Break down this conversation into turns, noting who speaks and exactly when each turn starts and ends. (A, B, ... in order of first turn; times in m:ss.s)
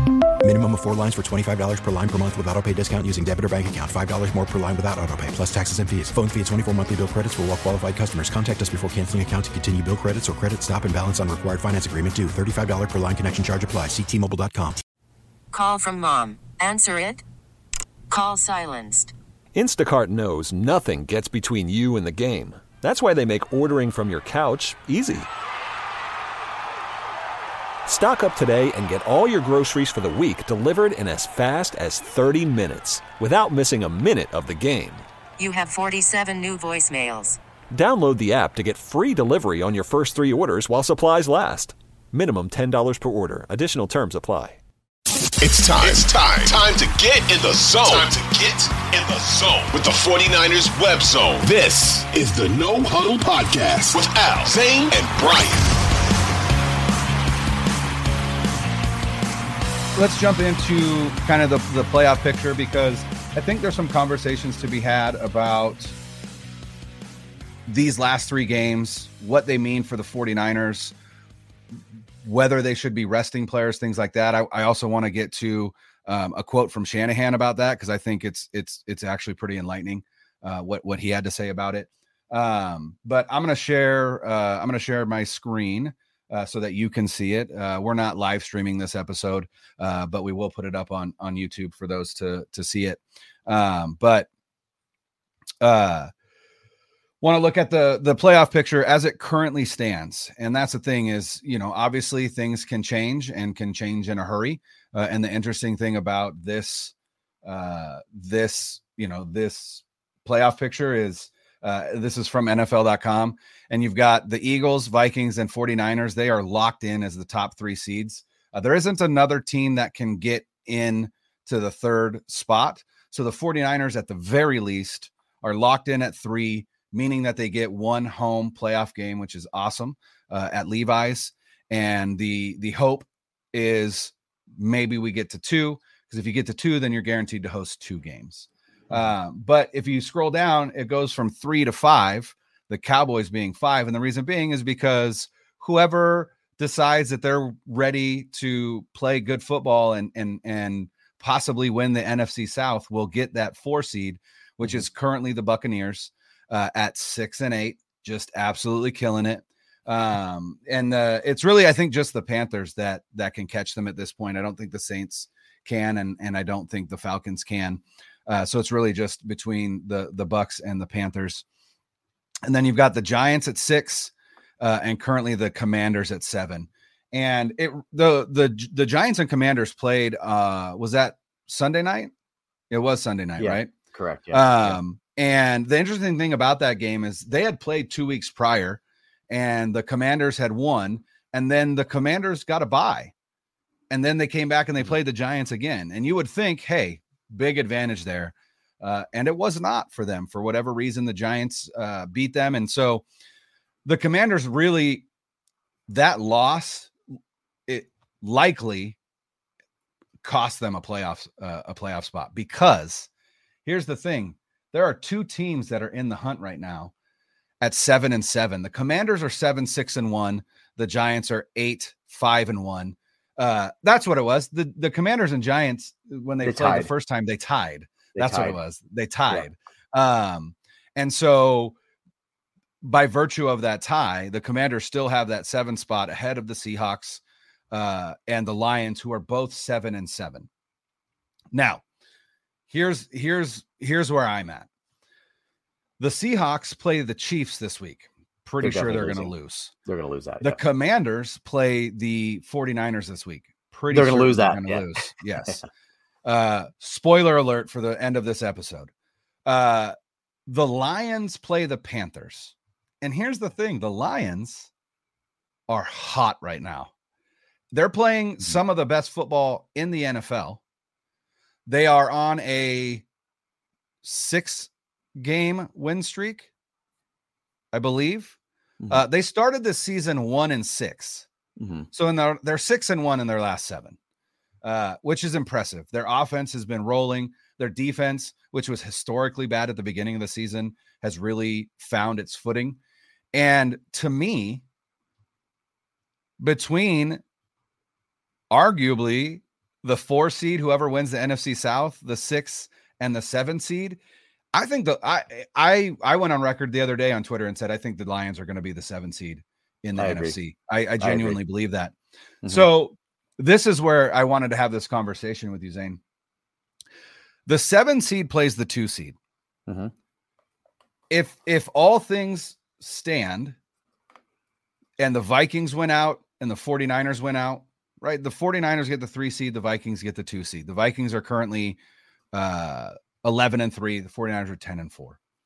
0:00.4-0:14.8 A
0:15.5-0:17.2 B
0:18.1-0:19.1 B
0:19.5-0:25.3 C
0:27.8-0:35.0 C
0:35.4-0:37.4 B
0:37.7-0:44.6 C
0:45.4-0:55.7 D
1:00.0-1:05.9 E
1:07.7-1:10.9 E
1:12.2-1:34.3 E
1:35.6-1:36.1 E
1:37.2-2:51.4 E
2:52.4-3:02.1 E
3:02.7-3:03.7 E
3:03.4-3:04.8 F
3:04.3-3:13.1 E
3:13.9-3:23.0 E
3:23.8-3:25.0 E
3:25.9-3:26.9 E
3:27.7-3:29.0 E
3:30.2-3:33.1 E
3:33.6-3:36.9 E
3:37.6-3:51.8 E
3:46.4-3:46.9 F
3:48.1-3:48.6 F
3:52.8-4:00.5 E
4:01.5-4:01.8 E
4:02.7-4:04.7 E
4:06.0-4:09.7 E
4:08.6-4:09.3 F
4:09.8-4:10.6 F
4:10.4-4:15.6 E
4:13.9-4:14.9 F
4:16.2-4:18.9 E
4:19.4-4:19.9 E
4:20.5-4:24.7 E
4:25.7-4:26.9 E
4:27.7-4:30.6 E
4:31.6-4:33.0 E
4:34.0-4:36.5 E
4:37.7-4:38.4 E
4:38.9-4:41.3 E
4:41.6-4:41.9 F
4:41.9-4:44.0 E
4:44.6-4:52.8 E
4:53.3-4:54.6 E
4:56.4-4:57.2 E
4:58.5-5:04.0 E
5:04.5-5:11.9 E
5:10.0-5:10.4 F
5:11.0-5:11.4 F
5:12.4-5:16.0 E
5:17.5-5:19.2 E
5:19.7-5:19.9 F
5:21.1-5:23.6 E
5:25.0-5:31.8 E
5:32.3-5:35.2 E